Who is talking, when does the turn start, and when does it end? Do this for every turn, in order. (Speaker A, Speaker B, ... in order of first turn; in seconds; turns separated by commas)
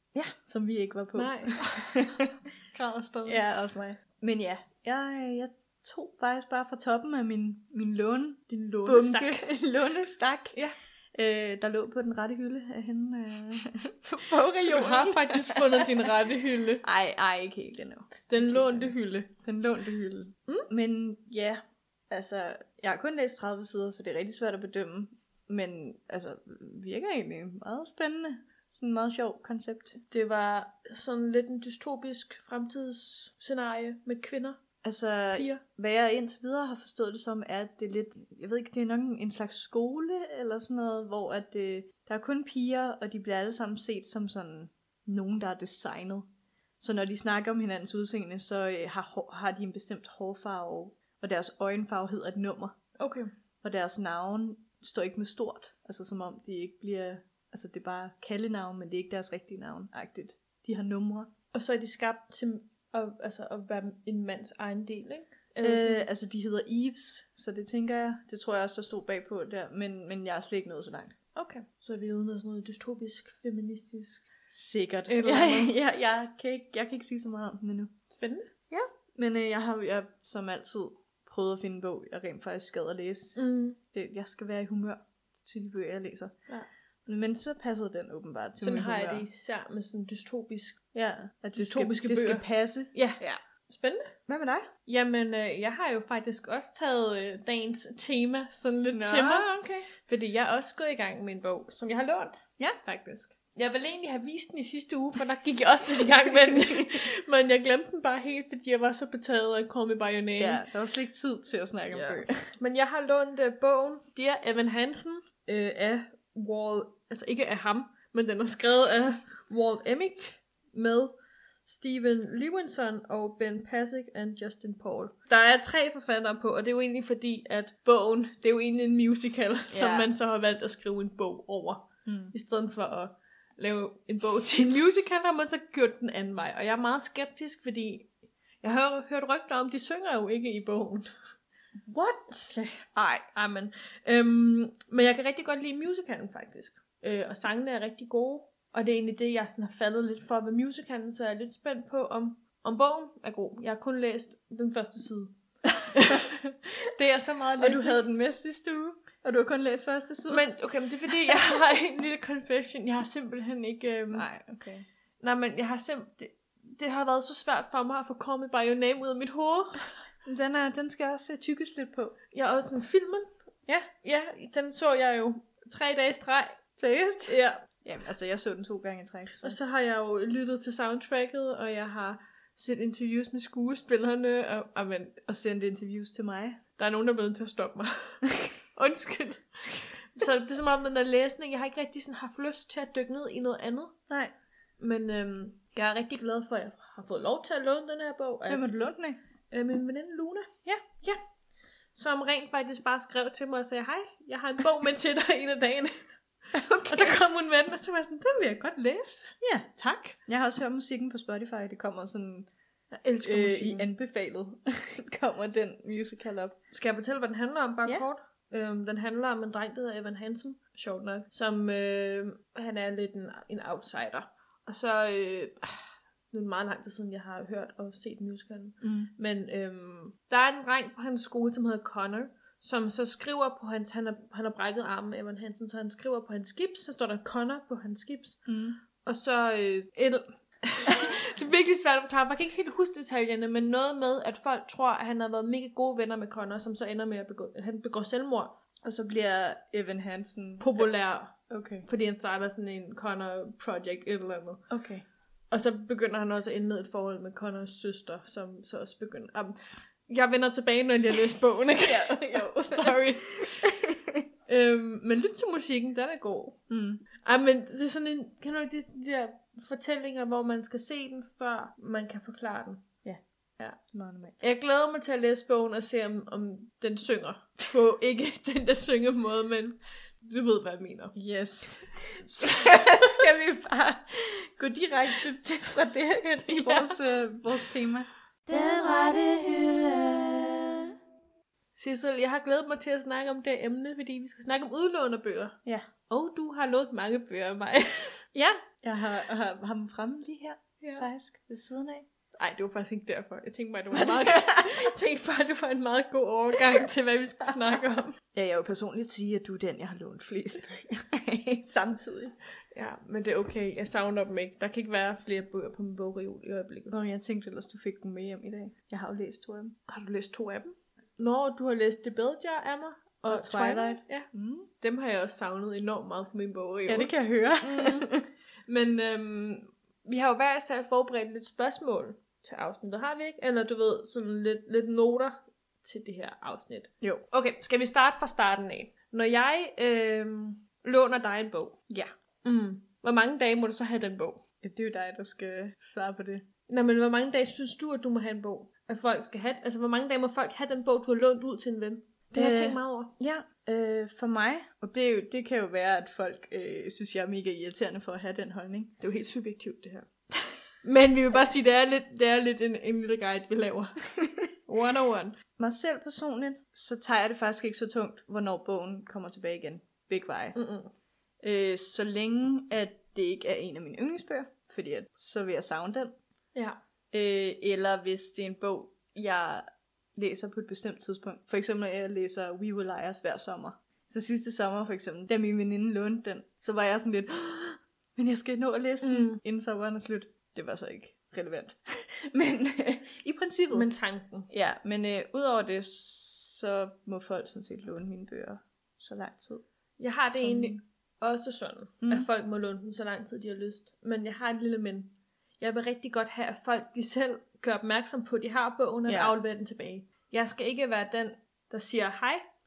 Speaker A: 0.1-2.3, Speaker B: 1.1-3.4, Speaker A: 3.3-10.6, Speaker B: 8.6-9.5, Speaker A: 11.1-16.1, Speaker B: 14.1-16.8, Speaker A: 16.8-30.0, Speaker B: 18.3-19.3, Speaker B: 30.1-34.6, Speaker A: 34.8-46.3, Speaker B: 35.3-35.6, Speaker A: 46.8-52.8, Speaker B: 53.0-53.3, Speaker A: 53.6-61.3, Speaker B: 61.5-66.1, Speaker A: 65.6-71.2, Speaker B: 71.3-74.2, Speaker A: 74.5-77.9, Speaker B: 75.1-75.7, Speaker B: 78.2-78.5, Speaker A: 78.7-83.4, Speaker B: 83.4-83.8, Speaker A: 83.9-86.3, Speaker A: 87.1-89.3, Speaker B: 88.6-90.8, Speaker A: 90.9-93.4, Speaker B: 91.6-94.1, Speaker A: 94.3-94.7, Speaker B: 94.9-110.6, Speaker A: 98.9-99.9, Speaker A: 106.3-107.0, Speaker A: 110.4-112.5, Speaker B: 111.9-138.1, Speaker A: 129.7-130.1, Speaker A: 132.1-132.3, Speaker B: 138.6-141.1, Speaker A: 141.8-143.2, Speaker B: 143.3-155.3, Speaker B: 155.9-158.0, Speaker A: 157.6-160.4, Speaker B: 160.3-164.3, Speaker A: 161.1-161.6, Speaker A: 164.1-164.9, Speaker B: 165.2-169.8, Speaker A: 170.2-172.2, Speaker B: 172.3-173.3, Speaker B: 174.0-176.6, Speaker A: 176.8-179.6, Speaker B: 177.3-177.7, Speaker B: 179.4-185.2, Speaker A: 185.3-186.6, Speaker B: 186.8-188.2, Speaker B: 188.8-193.9, Speaker B: 194.8-198.7, Speaker A: 198.5-199.2, Speaker B: 199.5-200.5, Speaker B: 202.0-206.1, Speaker A: 206.5-207.2, Speaker B: 206.9-210.2, Speaker A: 209.4-209.7, Speaker A: 210.3-212.5, Speaker B: 213.0-213.9, Speaker A: 213.2-216.6, Speaker B: 216.7-238.4, Speaker A: 228.8-229.1, Speaker A: 238.5-238.8, Speaker B: 239.0-248.6, Speaker A: 248.8-250.9, Speaker B: 250.6-254.6, Speaker A: 251.5-251.9, Speaker A: 254.7-255.1, Speaker B: 255.5-263.7, Speaker A: 261.8-264.2, Speaker B: 264.5-266.6, Speaker A: 266.7-267.0, Speaker B: 267.2-272.9, Speaker A: 273.0-274.4, Speaker B: 274.4-281.1, Speaker A: 281.1-288.1, Speaker B: 286.5-287.0, Speaker C: 288.5-290.9, Speaker B: 291.8-295.6, Speaker B: 296.1-298.2, Speaker A: 298.3-302.1, Speaker B: 300.8-301.1, Speaker B: 302.4-308.1, Speaker A: 303.9-304.8, Speaker A: 308.3-312.3, Speaker B: 312.7-316.9, Speaker A: 316.9-319.8, Speaker B: 319.9-324.3, Speaker A: 323.3-324.7, Speaker B: 324.8-328.1, Speaker A: 326.9-328.2, Speaker B: 328.7-341.8, Speaker B: 342.4-344.4, Speaker A: 344.6-346.5, Speaker B: 346.7-353.1, Speaker A: 352.3-359.0, Speaker B: 359.0-360.1, Speaker B: 360.8-363.9, Speaker B: 364.7-365.4, Speaker A: 365.6-370.6, Speaker B: 370.6-370.9, Speaker A: 371.4-376.1, Speaker A: 377.1-379.6, Speaker A: 380.2-393.9, Speaker B: 389.0-389.4, Speaker B: 393.7-394.5, Speaker A: 394.5-399.6, Speaker B: 400.0-412.4, Speaker A: 400.3-400.8, Speaker A: 402.0-402.3, Speaker A: 409.1-409.4